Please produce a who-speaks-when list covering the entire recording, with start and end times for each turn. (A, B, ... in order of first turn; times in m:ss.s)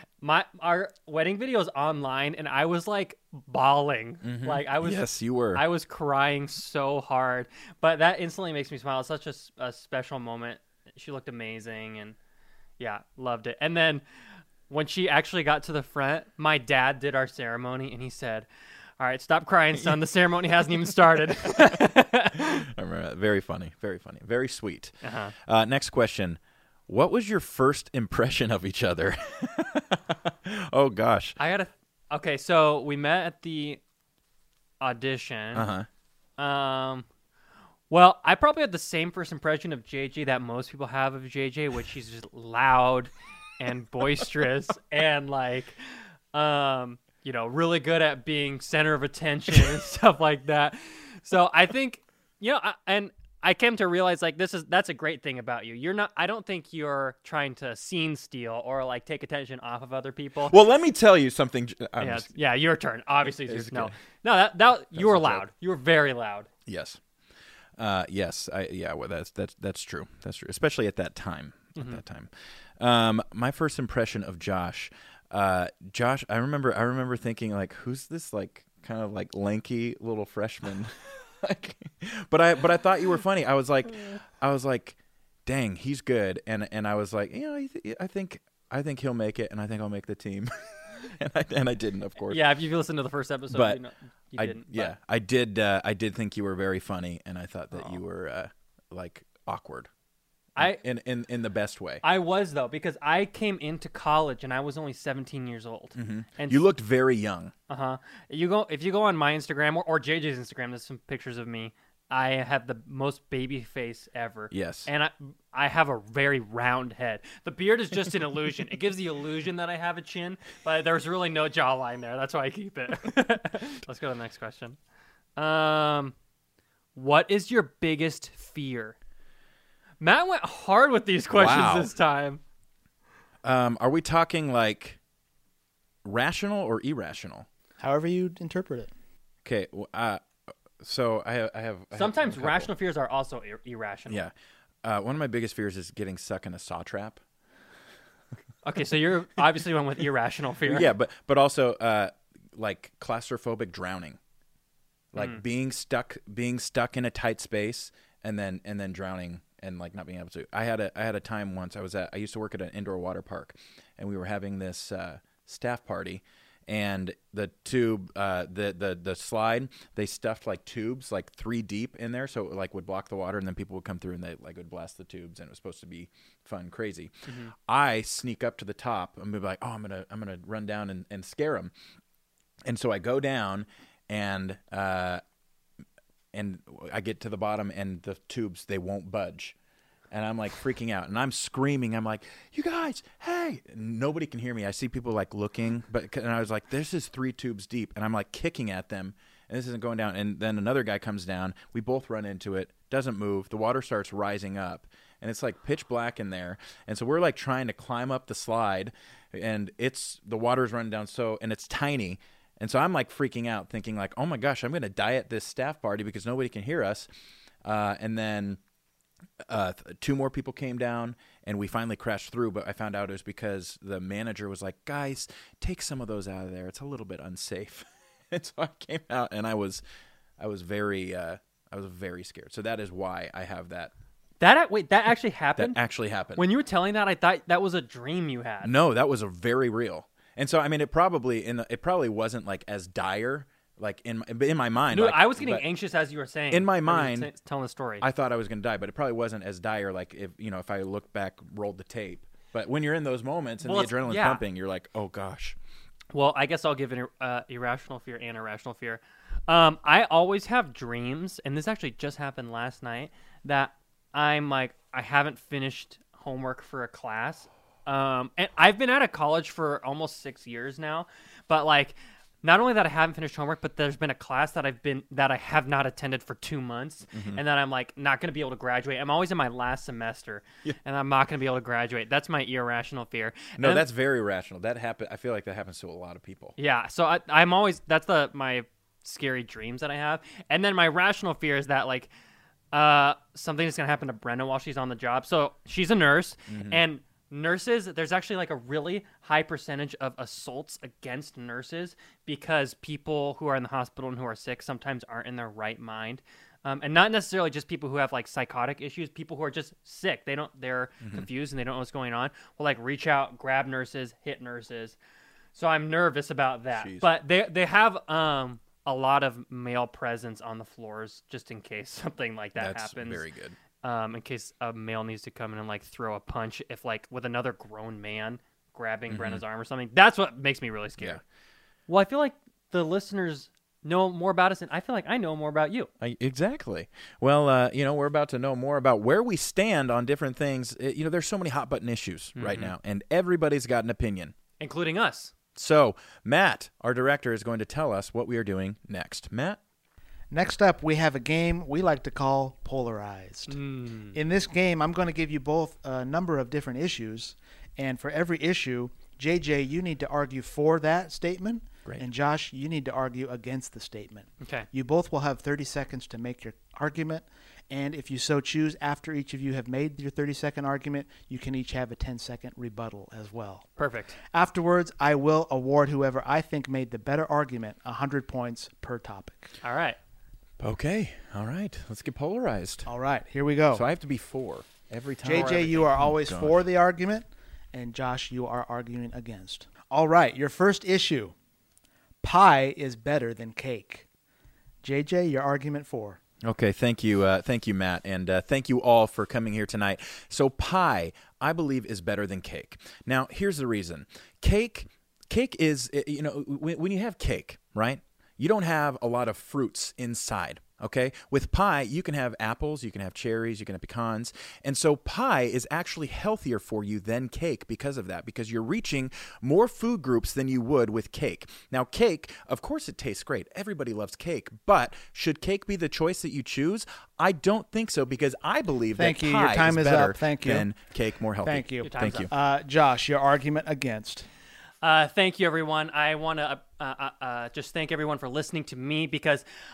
0:00.2-0:12.2 A
0:04.2-0:05.6 B
0:12.8-0:14.0 A
0:14.7-0:18.5 A
0:19.0-0:22.7 A
0:22.4-0:31.4 B
0:25.0-0:25.3 A
0:31.4-0:33.8 A
0:34.8-0:35.7 A
0:35.5-0:35.9 B
0:36.4-0:37.1 A
0:37.9-0:45.8 A
0:46.3-1:00.6 A
1:00.5-1:02.3 B
1:02.0-1:06.5 A
1:03.4-1:04.0 B
1:05.0-1:05.5 B
1:06.7-1:07.0 B
1:07.8-1:32.4 B
1:11.8-1:12.0 A
1:32.3-1:34.9 A
1:33.5-1:33.8 B
1:34.4-1:39.9 B
1:40.6-1:42.0 B
1:42.0-1:46.6 A
1:46.0-1:47.5 B
1:47.7-2:04.8 A
1:54.5-1:54.9 B
2:05.4-2:06.1 A
2:07.0-2:09.0 A
2:10.0-2:12.4 A
2:11.3-2:11.9 B
2:13.4-2:15.0 B
2:16.0-2:17.5 B
2:17.8-2:18.9 C
2:19.4-2:20.2 B
2:20.8-2:22.7 B
2:22.0-2:24.2 A
2:24.1-2:27.2 B
2:28.6-2:30.9 A
2:30.7-2:34.2 B
2:35.1-3:01.7 B
2:35.2-2:35.4 A
2:57.3-2:57.5 A
3:02.7-3:05.2 B
3:06.3-3:09.6 B
3:10.1-3:37.1 B
3:37.6-3:38.6 B
3:39.5-3:49.8 B
3:50.4-3:53.9 B
3:54.4-3:55.8 A
3:55.6-3:56.4 B
3:56.4-3:58.7 A
3:58.6-4:05.6 B
4:04.9-4:08.0 A
4:06.5-4:07.3 B
4:08.0-4:15.6 B
4:13.6-4:14.4 A
4:16.1-4:43.8 A
4:37.1-4:37.4 B
4:43.6-4:46.6 B
4:46.6-4:52.1 A
4:52.7-5:15.0 A
4:56.5-4:56.8 B
5:15.6-5:23.2 A
5:16.7-5:17.1 B
5:22.6-5:23.6 B
5:23.8-5:31.2 A
5:29.1-5:29.4 B
5:31.9-5:35.9 A
5:36.0-5:44.3 B
5:42.4-5:42.7 A
5:44.6-5:45.3 A
5:45.6-5:49.6 B
5:50.3-5:53.6 C
5:53.5-5:54.2 A
5:54.1-6:13.7 C
6:04.4-6:04.7 A
6:13.8-6:14.2 A
6:14.3-6:19.5 C
6:19.6-6:20.0 A
6:20.6-6:22.9 B
6:22.9-6:23.8 C
6:23.7-6:26.6 B
6:25.2-6:31.3 C
6:25.3-6:25.9 A
6:32.2-6:34.1 C
6:34.8-6:36.2 C
6:36.4-7:12.3 B
7:09.0-7:10.7 C
7:11.4-7:14.3 C
7:11.8-7:12.3 A
7:14.8-7:19.4 A